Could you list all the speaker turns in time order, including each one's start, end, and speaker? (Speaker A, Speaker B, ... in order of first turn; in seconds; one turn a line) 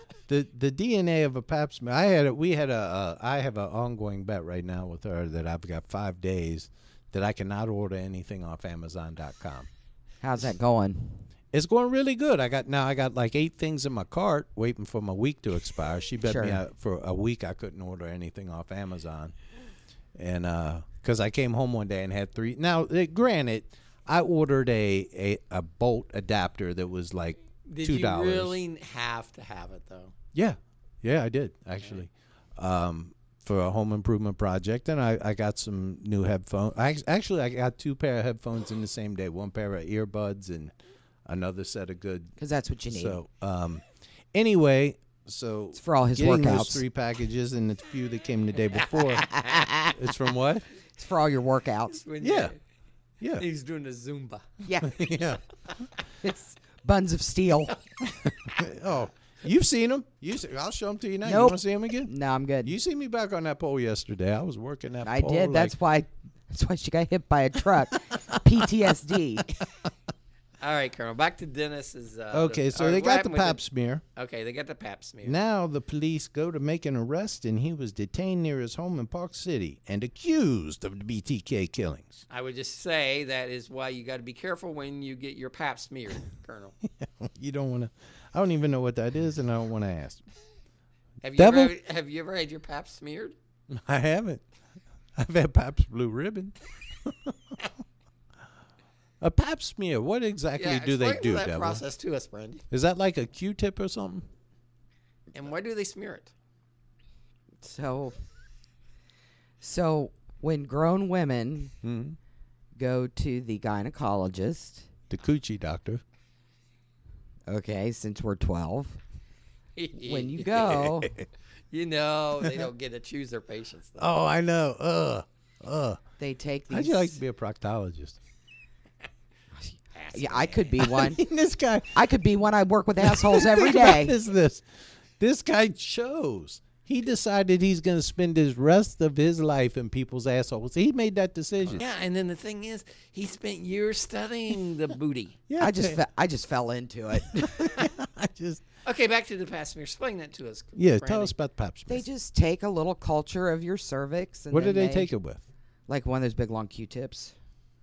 Speaker A: 0.3-9.7
Speaker B: 10.2-11.2
Speaker A: 11.5-19.3
Speaker B: 16.2-16.6
Speaker A: 20.1-28.6
Speaker C: 27.6-30.1
Speaker A: 30.3-40.7
Speaker A: 41.2-42.4
Speaker B: 42.4-43.2
Speaker A: 42.9-43.8
Speaker A: 44.3-50.6
Speaker B: 45.7-46.8
Speaker B: 49.4-49.9
Speaker B: 51.0-52.0
Speaker C: 51.9-52.6
Speaker A: 52.2-52.5
Speaker A: 53.2-53.5
Speaker C: 53.4-54.5
Speaker B: 54.6-54.9
Speaker A: 54.8-55.4
Speaker B: 56.2-57.8
Speaker A: 58.3-62.1
Speaker B: 61.2-62.8
Speaker A: 62.6-65.7
Speaker B: 65.0-69.5
Speaker C: 70.6-73.6
Speaker A: 72.3-74.0
Speaker C: 74.2-75.4
Speaker A: 75.2-82.2
Speaker C: 82.3-86.8
Speaker A: 87.0-90.2
Speaker C: 91.2-93.3
Speaker A: 91.3-91.7
Speaker A: 93.7-94.4
Speaker A: 95.2-97.7
Speaker A: 99.2-101.8
Speaker C: 100.5-102.6
Speaker A: 102.7-104.3
Speaker C: 105.3-106.3
Speaker B: 107.6-108.2
Speaker B: 109.6-111.7
Speaker A: 111.8-112.2
Speaker B: 112.8-114.9
Speaker A: 115.1-116.0
Speaker B: 117.5-119.0
Speaker C: 119.8-120.9
Speaker B: 120.0-121.1
Speaker C: 121.7-124.0
Speaker A: 124.0-126.0
Speaker B: 126.2-127.2
Speaker A: 126.7-128.2
Speaker B: 129.6-131.2
Speaker C: 129.9-130.7
Speaker A: 130.8-132.0
Speaker B: 131.9-134.2
Speaker A: 133.0-134.6
Speaker A: 135.2-141.8
Speaker C: 141.8-145.4
Speaker A: 145.5-146.0
Speaker B: 145.6-147.8
Speaker A: 147.3-148.6
Speaker C: 148.8-151.3
Speaker A: 150.8-152.1
Speaker B: 151.9-155.1
Speaker A: 154.5-155.4
Speaker B: 155.9-157.3